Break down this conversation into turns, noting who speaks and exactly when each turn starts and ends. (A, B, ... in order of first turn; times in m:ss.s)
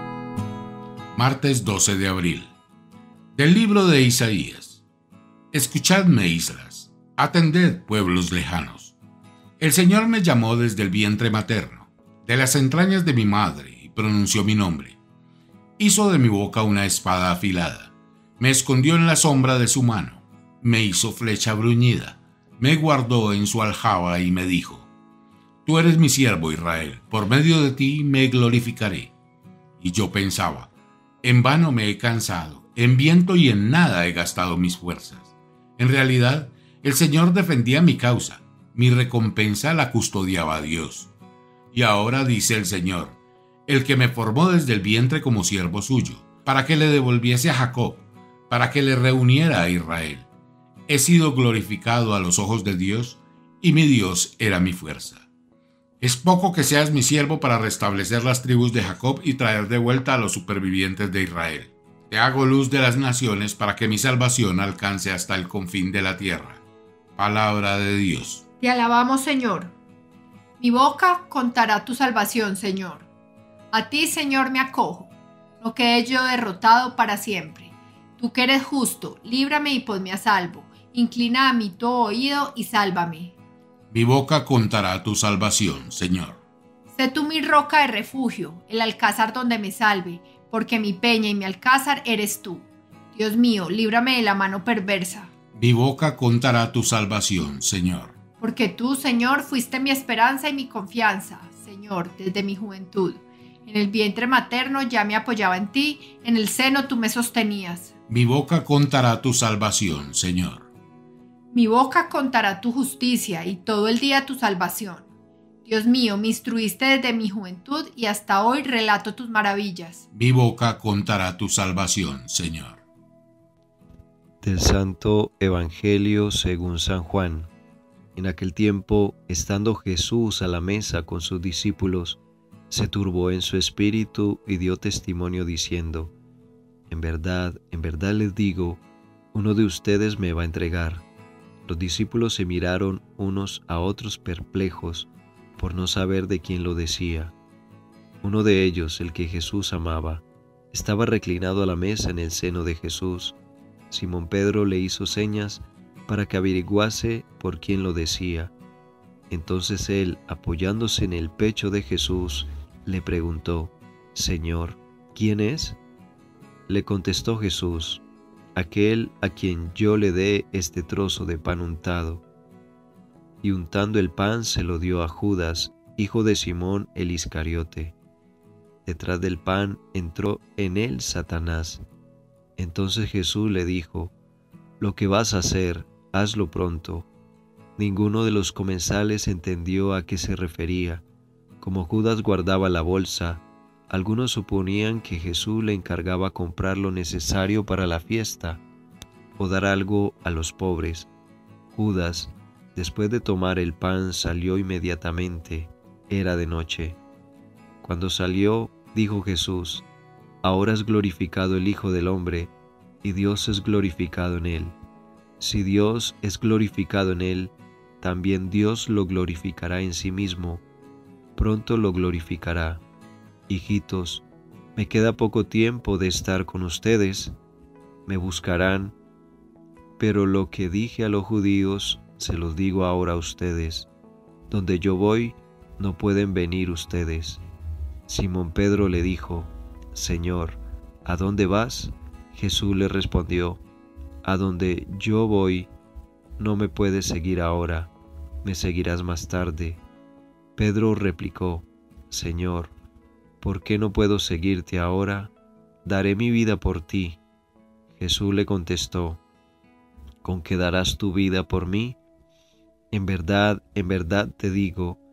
0:01.1-0:02.5 A
0:03.3-0:04.8 A
0:05.5-0:08.9 A
0:09.6-0:15.0 A
0:15.8-0:24.9 A
0:25.6-0:29.1 A
0:29.8-0:30.7 A
0:31.2-0:41.1 A
0:41.7-0:43.2 A
0:43.7-0:50.2 A
0:50.9-0:55.2 A
0:56.0-1:06.6 A
1:07.2-1:08.4 A
1:08.6-1:09.7 B
1:10.6-1:13.0 B
1:13.7-1:23.3 B
1:23.9-1:26.4 A
1:26.9-1:35.3 B
1:35.5-1:38.1 A
1:38.4-1:47.9 B
1:48.1-1:50.6 A
1:51.5-1:55.1 B
1:55.6-2:00.0 B
2:00.1-2:02.8 A
2:04.4-2:07.5 C
2:08.2-2:12.2 C
2:12.7-2:16.1 C
2:16.9-2:18.8 C
2:19.3-2:21.0 C
2:21.6-2:27.3 C
2:28.2-2:33.4 C
2:33.9-2:38.5 C
2:39.3-2:45.8 C
2:46.7-2:48.0 C
2:48.5-2:52.2 C
2:53.4-2:57.9 C
2:58.8-3:01.8 C
3:02.6-3:04.1 C
3:04.8-3:07.1 C
3:07.8-3:11.0 C
3:11.6-3:18.6 C
3:19.3-3:21.1 C
3:21.7-3:27.0 C
3:27.8-3:29.8 C
3:30.4-3:32.5 C
3:33.0-3:34.8 C
3:35.4-3:40.6 C
3:41.4-3:42.8 C
3:43.5-3:47.3 C
3:48.0-3:49.0 C
3:50.0-3:53.9 C
3:54.5-3:57.4 C
3:58.1-4:03.6 C
4:04.2-4:05.7 C
4:06.4-4:07.9 C
4:08.4-4:09.8 C
4:10.6-4:12.7 C
4:13.4-4:15.3 C
4:15.8-4:17.2 C
4:17.9-4:19.2 C
4:20.2-4:22.0 C
4:22.9-4:25.0 C